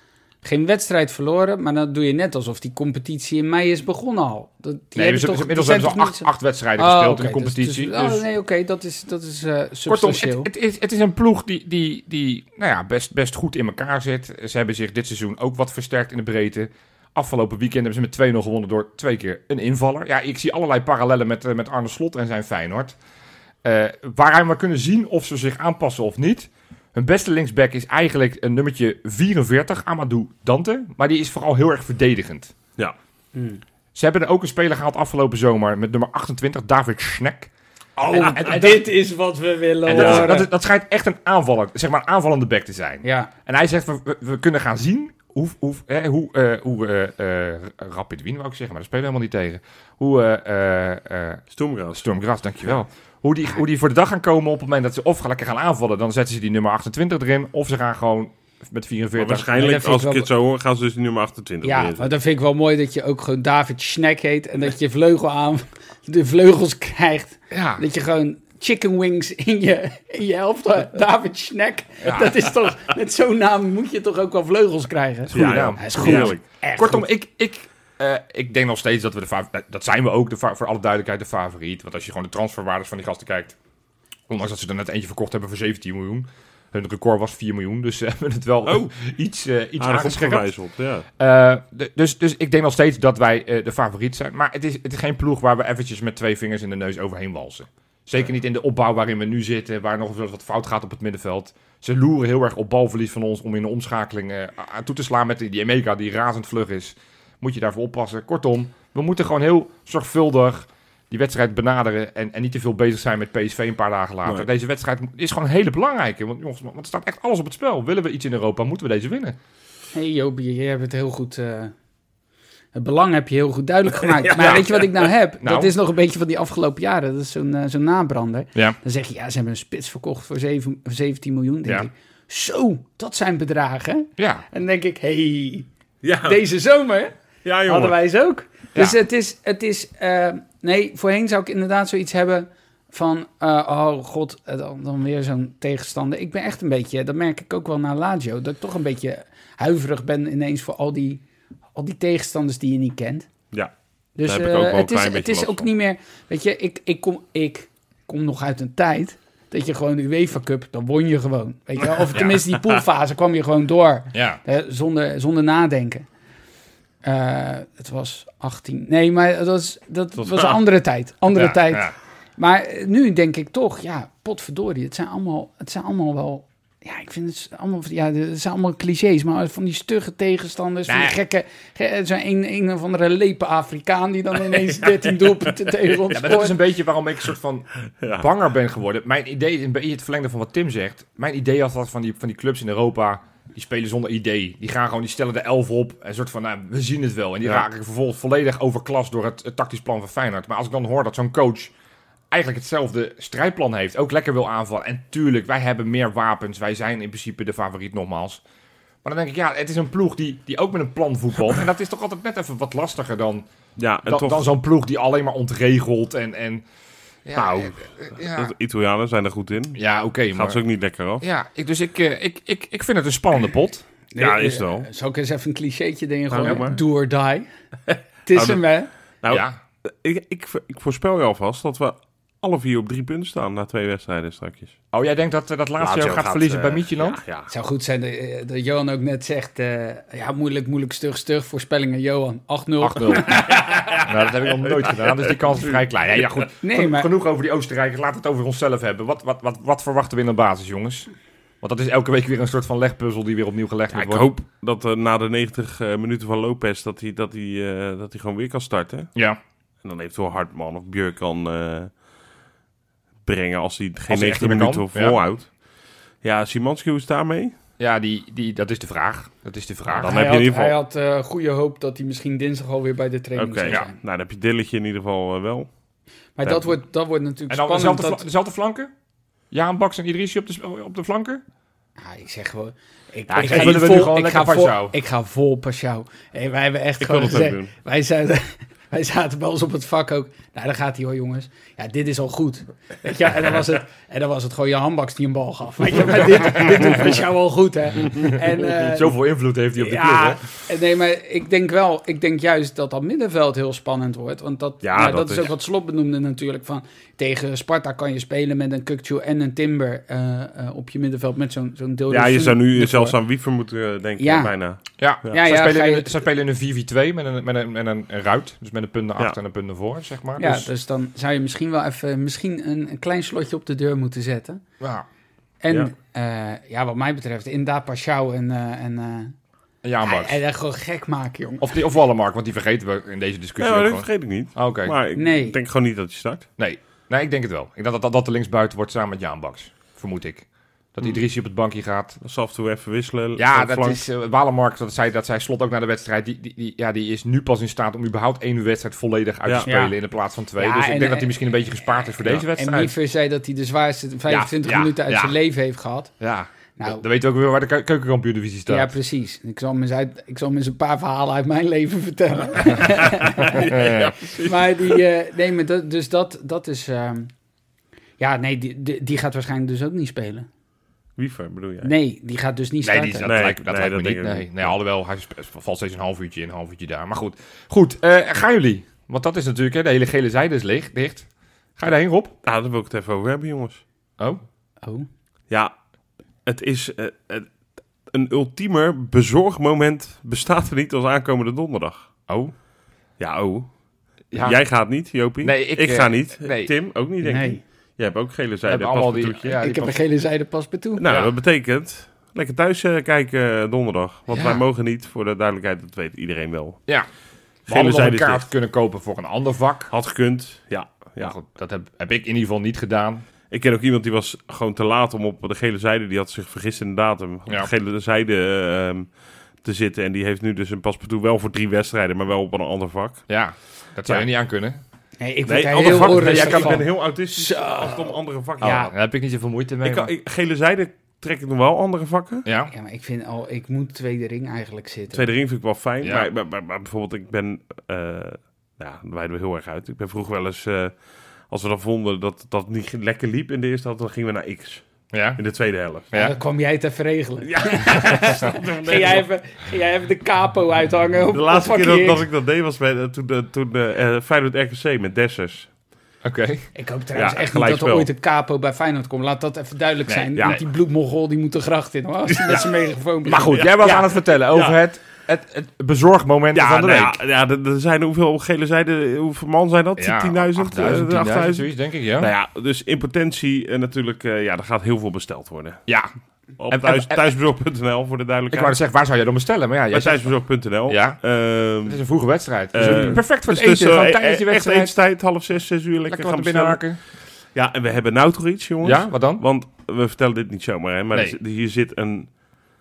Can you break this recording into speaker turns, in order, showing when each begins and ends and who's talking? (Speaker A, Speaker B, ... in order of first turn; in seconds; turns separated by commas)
Speaker A: 0.4-10.5, Speaker B: 4.9-8.2, Speaker B: 9.9-22.9, Speaker B: 23.6-32.5, Speaker A: 33.3-33.6, Speaker B: 33.9-37.5, Speaker A: 38.0-40.5, Speaker B: 38.1-38.8, Speaker B: 39.9-59.5, Speaker C: 39.9-40.3, Speaker A: 43.0-43.3, Speaker C: 51.5-52.0, Speaker C: 59.1-62.1, Speaker A: 59.5-60.3, Speaker A: 61.6-77.0, Speaker B: 67.5-67.8, Speaker B: 72.0-72.3, Speaker B: 75.3-83.5, Speaker C: 75.3-76.4, Speaker B: 84.3-90.5, Speaker C: 89.8-91.0, Speaker B: 91.2-119.4, Speaker A: 119.9-121.7, Speaker A: 122.7-135.7, Speaker C: 124.1-124.8, Speaker B: 124.3-124.8, Speaker B: 125.4-125.7, Speaker B: 134.2-134.4, Speaker C: 136.0-136.4, Speaker A: 136.2-137.1, Speaker C: 137.4-137.9, Speaker A: 137.7-151.2, Speaker A: 151.7-153.3, Speaker A: 154.2-166.1, Speaker C: 154.2-155.7, Speaker B: 164.1-164.4, Speaker A: 167.0-186.6, Speaker C: 170.2-170.6, Speaker B: 171.3-171.9, Speaker B: 180.9-181.1, Speaker B: 186.1-201.7, Speaker C: 188.0-188.3, Speaker B: 202.3-208.4, Speaker B: 209.0-213.5, Speaker C: 213.8-214.5, Speaker B: 214.1-216.6, Speaker B: 217.2-218.5, Speaker C: 217.3-221.2, Speaker B: 219.7-220.6, Speaker B: 221.2-223.8, Speaker A: 224.1-227.4, Speaker C: 224.2-224.9, Speaker C: 226.3-226.8, Speaker C: 227.9-228.6, Speaker A: 228.3-228.9, Speaker C: 229.2-234.7, Speaker B: 229.3-229.6, Speaker B: 234.9-237.2, Speaker C: 235.8-237.5, Speaker A: 237.5-243.8, Speaker B: 242.8-251.1, Speaker C: 243.4-244.0, Speaker C: 244.6-245.8, Speaker A: 246.6-247.1, Speaker B: 251.6-254.3, Speaker C: 253.9-259.1, Speaker C: 259.8-261.9, Speaker C: 263.2-265.5, Speaker B: 264.1-265.2, Speaker C: 266.2-267.5, Speaker B: 267.8-270.1, Speaker C: 269.9-270.8, Speaker A: 270.0-273.9, Speaker C: 273.4-275.7, Speaker A: 276.4-278.2, Speaker C: 276.4-276.7, Speaker B: 277.5-278.9, Speaker B: 279.5-281.4, Speaker A: 282.0-299.2, Speaker C: 283.3-283.8, Speaker B: 283.3-284.9, Speaker C: 287.0-287.7, Speaker B: 298.8-300.4, Speaker A: 299.8-313.2, Speaker C: 304.8-305.5, Speaker C: 312.1-315.3, Speaker A: 314.2-314.5, Speaker B: 315.0-320.7, Speaker A: 315.2-316.2, Speaker A: 320.4-324.6, Speaker B: 324.8-325.1, Speaker A: 325.6-329.3, Speaker B: 329.8-330.4, Speaker A: 330.0-331.7, Speaker B: 331.6-334.9, Speaker C: 333.6-336.4, Speaker A: 335.1-335.6, Speaker B: 336.6-342.2, Speaker C: 342.2-344.0, Speaker B: 343.4-352.9, Speaker A: 349.6-349.9, Speaker A: 350.6-351.4, Speaker A: 352.4-356.1, Speaker B: 354.3-355.4, Speaker B: 356.2-358.9, Speaker A: 356.8-357.0, Speaker A: 358.7-363.7, Speaker C: 362.8-365.0, Speaker B: 363.6-364.1, Speaker A: 364.3-367.3, Speaker A: 368.2-370.5, Speaker C: 371.2-371.9, Speaker A: 371.8-373.3, Speaker B: 372.8-382.3, Speaker C: 373.2-374.7, Speaker C: 382.4-383.8, Speaker A: 384.8-385.1, Speaker C: 386.4-387.5, Speaker C: 388.1-392.1, Speaker B: 392.3-392.5, Speaker C: 393.2-393.7, Speaker B: 394.3-394.6, Speaker C: 394.3-399.6, Speaker B: 395.4-396.7, Speaker A: 397.2-397.6, Speaker B: 398.6-399.9, Speaker A: 399.6-401.0, Speaker C: 401.0-406.8, Speaker B: 404.3-404.6, Speaker C: 407.7-408.4, Speaker B: 407.7-409.9, Speaker C: 409.9-411.3, Speaker B: 411.2-413.2, Speaker C: 413.5-419.1, Speaker C: 419.6-423.2, Speaker B: 423.3-424.8, Speaker A: 425.2-428.9, Speaker C: 425.5-428.9, Speaker B: 425.8-426.8, Speaker B: 428.6-430.1, Speaker C: 429.8-432.4, Speaker B: 432.4-432.7, Speaker A: 432.7-435.3, Speaker C: 435.1-440.9, Speaker B: 436.0-436.3, Speaker C: 441.5-444.8, Speaker B: 445.1-445.4, Speaker C: 445.4-446.1, Speaker A: 446.1-452.2, Speaker C: 447.4-449.2, Speaker C: 451.3-455.7, Speaker B: 456.2-456.7, Speaker A: 456.7-464.0, Speaker C: 457.1-458.1, Speaker B: 460.1-460.6, Speaker C: 462.3-462.6, Speaker B: 463.2-467.2, Speaker C: 463.5-464.8, Speaker C: 466.5-475.8, Speaker B: 470.0-472.3, Speaker C: 476.6-478.8, Speaker B: 476.7-477.2, Speaker B: 478.5-480.3, Speaker C: 479.9-482.0, Speaker B: 480.9-481.2, Speaker B: 481.8-484.9, Speaker C: 482.7-486.9, Speaker B: 486.1-487.0, Speaker C: 487.5-492.4, Speaker B: 488.8-489.4